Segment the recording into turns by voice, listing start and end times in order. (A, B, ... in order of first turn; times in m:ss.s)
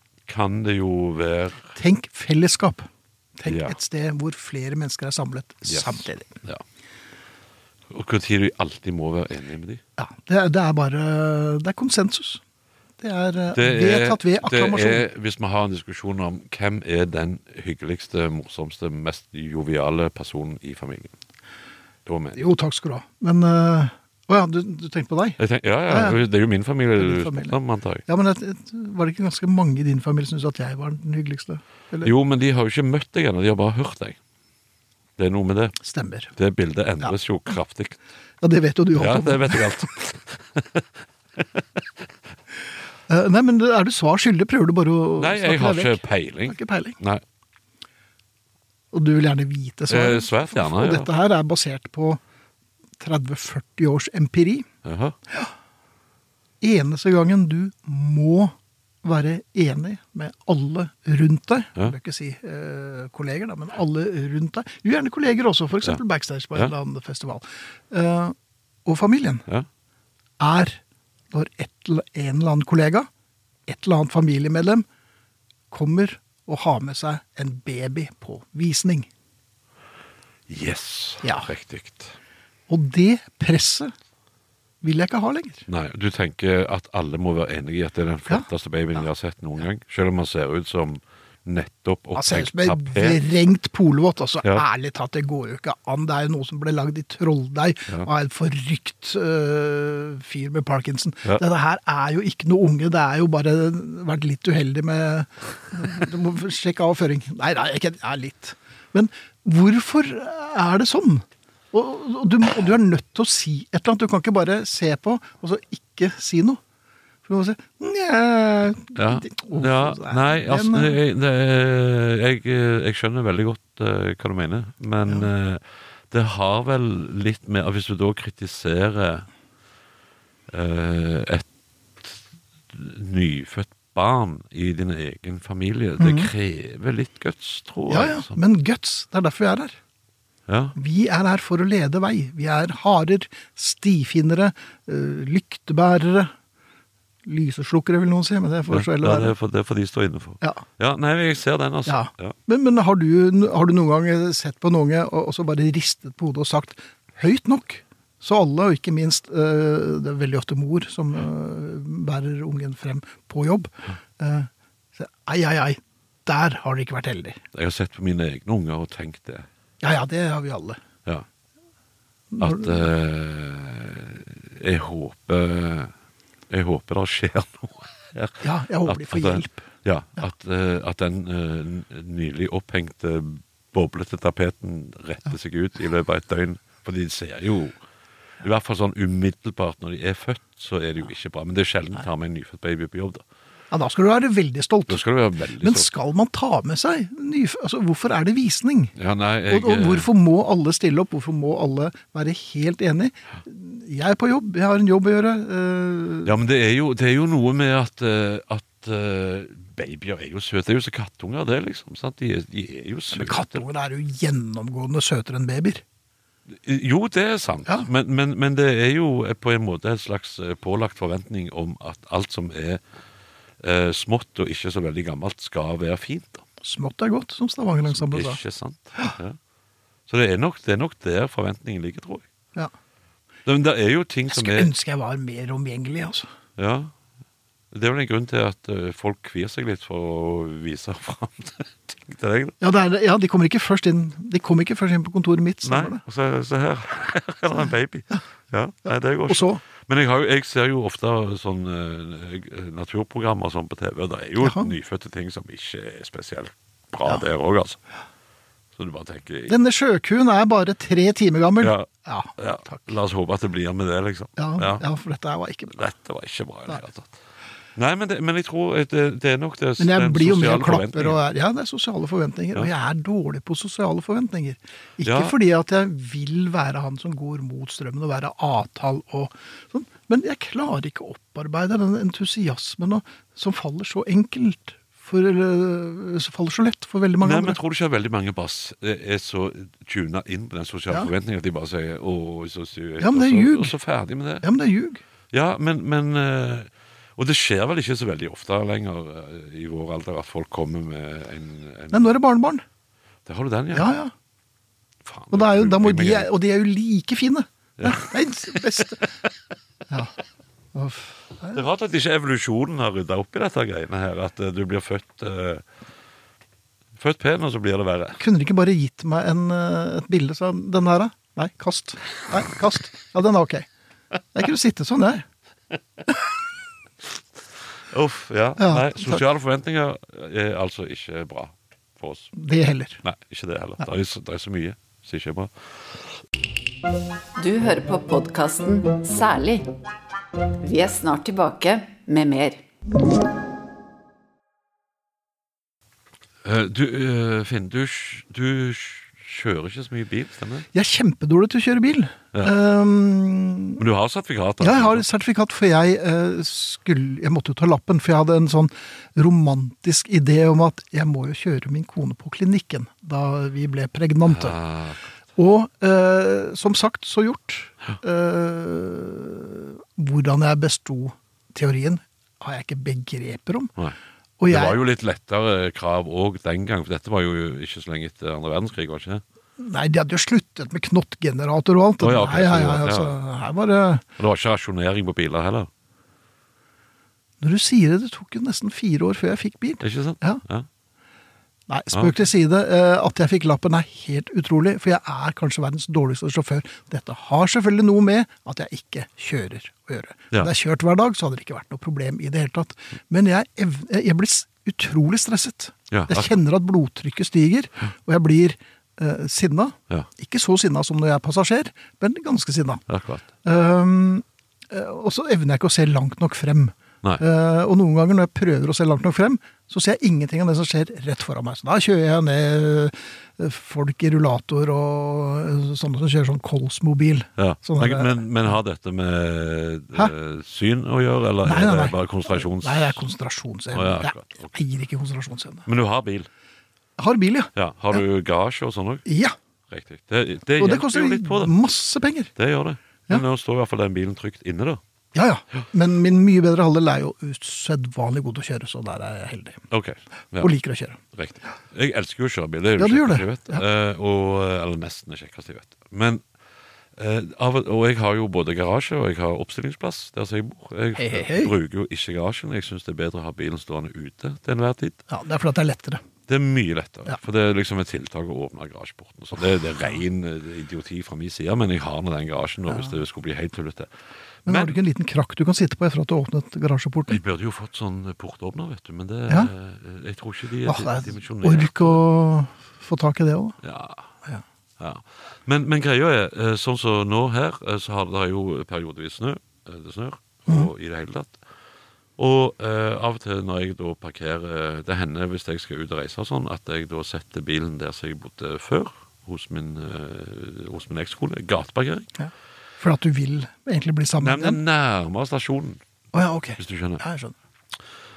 0:00.3-0:01.7 A
0:01.8-0:06.4 B
0:03.5-0:03.8 A
0:05.7-0:06.6 A
0:07.9-0:09.8 A
0:10.0-0:12.4 B
0:13.0-0:15.1 B
0:13.5-0:21.1 A
0:22.1-0:22.4 A
0:22.4-0:26.2 B
0:25.4-0:28.0 A
0:27.0-0:32.1 B
0:32.0-0:34.2 A
0:35.2-0:35.8 A
0:35.8-0:36.3 B
0:36.4-0:38.0 A
0:38.4-0:39.9 B
0:39.0-0:42.0 A
0:43.1-0:47.0 B
0:45.2-0:47.2 A
0:48.9-0:52.2 B
0:49.9-0:51.1 A
0:53.0-0:54.7 B
0:54.8-0:55.2 A
0:56.6-1:09.5 B
1:10.4-1:10.8 B
1:11.3-1:13.1 B
1:13.7-1:14.8 B
1:15.7-1:19.1 B
1:20.5-1:22.2 A
1:21.2-1:21.5 B
1:22.7-1:23.9 B
1:24.8-1:25.7 B
1:25.7-1:33.2 A
1:32.2-1:56.6 B
1:57.3-2:01.0 B
1:59.0-2:09.3 A
2:10.5-2:11.5 A
2:12.7-2:18.4 A
2:16.0-2:16.3 B
2:17.9-2:19.8 B
2:20.5-2:20.8 A
2:20.8-2:26.3 B
2:27.2-2:29.4 B
2:28.7-2:32.4 A
2:30.4-2:30.7 B
2:31.9-2:47.4 B
2:47.5-2:49.5 A
2:49.8-2:50.8 B
2:52.3-2:52.9 B
2:52.4-2:55.9 A
2:56.5-3:07.8 A
2:58.4-2:59.6 B
3:08.4-3:13.2 A
3:13.7-3:15.0 B
3:14.9-3:15.9 A
3:15.6-3:19.0 B
3:19.0-3:20.1 A
3:19.5-3:26.4 B
3:26.2-3:33.6 A
3:33.1-3:35.8 B
3:36.5-3:42.8 A
3:43.6-3:46.4 A
3:46.6-3:48.4 B
3:47.9-3:49.4 A
3:50.1-3:52.3 A
3:53.5-3:54.7 A
3:54.3-3:56.3 B
3:56.6-3:56.9 A
3:57.7-4:02.6 A
4:02.6-4:06.0 B
4:05.6-4:17.8 A
4:09.3-4:09.6 B
4:14.4-4:14.7 B
4:18.8-4:19.5 A
4:19.5-4:22.9 B
4:21.6-4:24.8 A
4:24.4-4:25.8 B
4:25.7-4:27.2 A
4:27.8-4:31.2 A
4:29.8-4:47.6 B
4:35.0-4:35.4 A
4:47.2-4:54.5 A
4:53.0-4:53.8 B
4:54.4-4:55.0 B
4:55.3-5:02.2 A
5:01.9-5:02.6 B
5:03.2-5:03.9 A
5:03.7-5:04.1 B
5:05.0-5:06.3 A
5:05.3-5:09.1 B
5:07.8-5:08.8 A
5:09.9-5:10.2 B
5:10.7-5:11.6 B
5:11.5-5:15.6 A
5:16.9-5:18.2 A
5:18.2-5:23.7 B
5:24.3-5:25.3 B
5:27.9-5:32.3 A
5:28.6-5:29.2 B
5:32.3-5:33.0 B
5:33.0-5:36.2 A
5:37.4-5:39.7 C
5:40.6-5:42.6 C
5:46.4-5:50.7 A
5:50.7-5:53.8 B
5:53.8-5:55.1 A
5:54.6-6:04.6 B
6:04.3-6:05.1 A
6:05.4-6:13.8 B
6:14.4-6:14.8 B
6:14.5-6:19.2 A
6:19.6-6:24.0 B
6:22.0-6:23.2 A
6:24.2-6:25.7 A
6:27.4-6:30.4 B
6:29.8-6:30.7 A
6:31.7-6:52.8 B
6:31.9-6:32.2 A
6:45.9-6:46.4 A
6:52.9-6:53.2 A
6:53.4-7:08.3 B
7:07.4-7:13.0 A
7:11.4-7:15.7 B
7:13.7-7:14.6 A
7:15.7-7:16.3 A
7:17.0-7:18.0 B
7:17.6-7:19.1 A
7:19.1-7:19.4 B
7:19.7-7:21.6 A
7:20.6-7:22.3 B
7:22.4-7:24.8 A
7:25.1-7:29.6 B
7:29.7-7:30.5 A
7:30.4-7:31.0 B
7:31.1-7:36.2 A
7:32.8-7:33.6 B
7:37.0-7:45.0 A
7:41.0-7:41.5 B
7:45.1-7:46.0 B
7:46.3-7:53.9 A
7:52.7-7:52.9 B
7:54.4-7:54.8 A
7:54.5-7:57.2 B
7:57.1-8:02.0 A
8:00.6-8:03.6 B
8:03.6-8:04.1 A
8:04.8-8:11.4 A
8:12.2-8:22.1 A
8:22.2-8:24.6 B
8:24.2-8:25.8 A
8:26.1-8:27.4 B
8:26.6-8:27.0 A